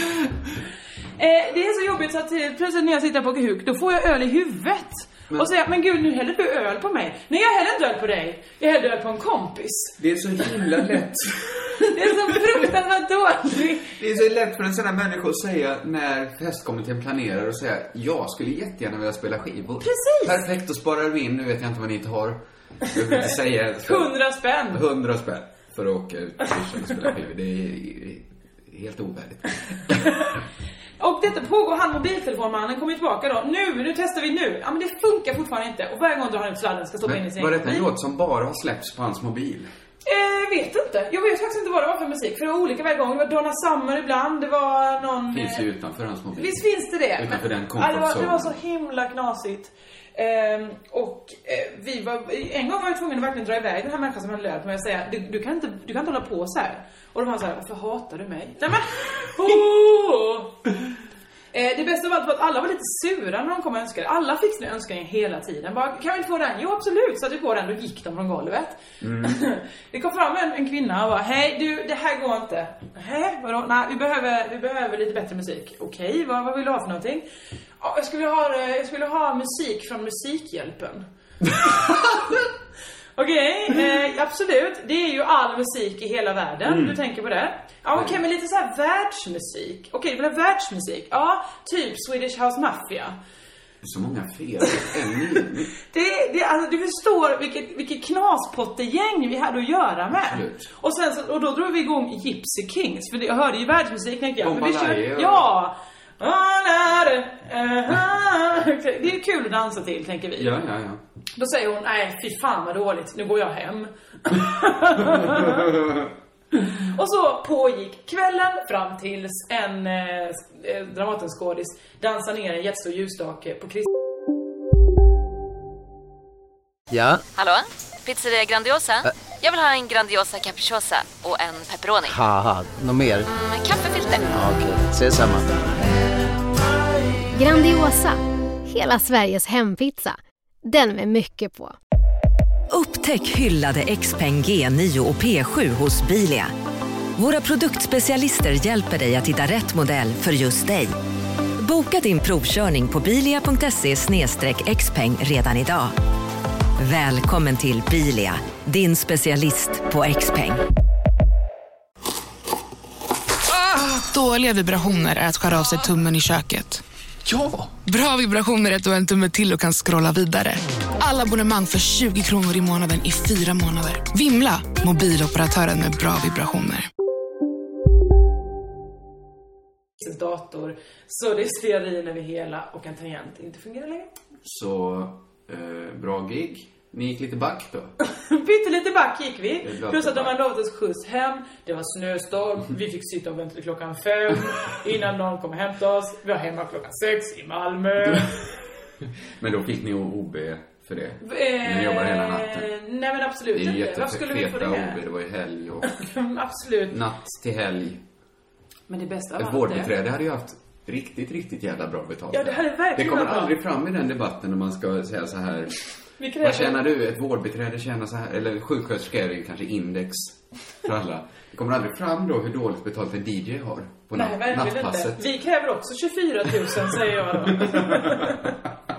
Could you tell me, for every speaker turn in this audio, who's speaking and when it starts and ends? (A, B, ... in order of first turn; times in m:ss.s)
0:01.2-0:10.0 A
0:10.0-0:12.6 B
0:11.8-0:14.0 A
0:13.9-0:24.2 B
0:19.8-0:20.4 A
0:23.8-0:24.8 A
0:24.7-0:30.2 B
0:31.0-0:37.9 A
0:37.0-0:39.7 B
0:40.0-0:45.6 A
0:45.3-0:46.6 B
0:46.4-1:00.6 A
0:47.2-0:48.6 B
1:01.5-1:17.2 A
1:09.0-1:09.4 B
1:17.8-1:21.1 A
1:21.6-1:21.9 B
1:21.6-1:22.2 A
1:23.2-1:33.2 A
1:26.6-1:27.0 B
1:33.8-1:35.7 B
1:35.8-1:50.5 A
1:40.2-1:40.7 B
1:44.4-1:45.5 B
1:50.4-1:51.0 B
1:51.4-1:55.7 A
1:55.1-1:56.0 B
1:56.5-2:03.9 A
2:06.9-2:07.2 C
2:07.4-2:12.2 D
2:12.1-2:13.3 C
2:13.3-2:14.3 D
2:14.3-2:15.6 C
2:17.3-2:21.8 E
2:22.7-2:26.5 F
2:27.2-2:30.9 F
2:31.6-2:36.0 F
2:36.8-2:40.6 F
2:43.6-2:46.8 G
2:47.3-2:47.6 B
2:47.8-2:56.9 G
3:00.0-3:04.1 A
3:04.4-3:07.9 B
3:08.0-3:18.3 A
3:09.6-3:10.3 B
3:18.0-3:18.3 B
3:19.4-3:22.7 B
3:21.2-3:25.0 A
3:23.5-3:26.0 B
3:25.9-3:27.0 A
3:26.9-3:28.0 B
3:28.9-3:29.9 A
3:29.4-3:35.7 B
3:32.3-3:33.6 A
3:36.2-3:36.8 A
3:36.4-3:45.2 B
3:44.1-3:48.6 A
3:47.6-3:48.3 B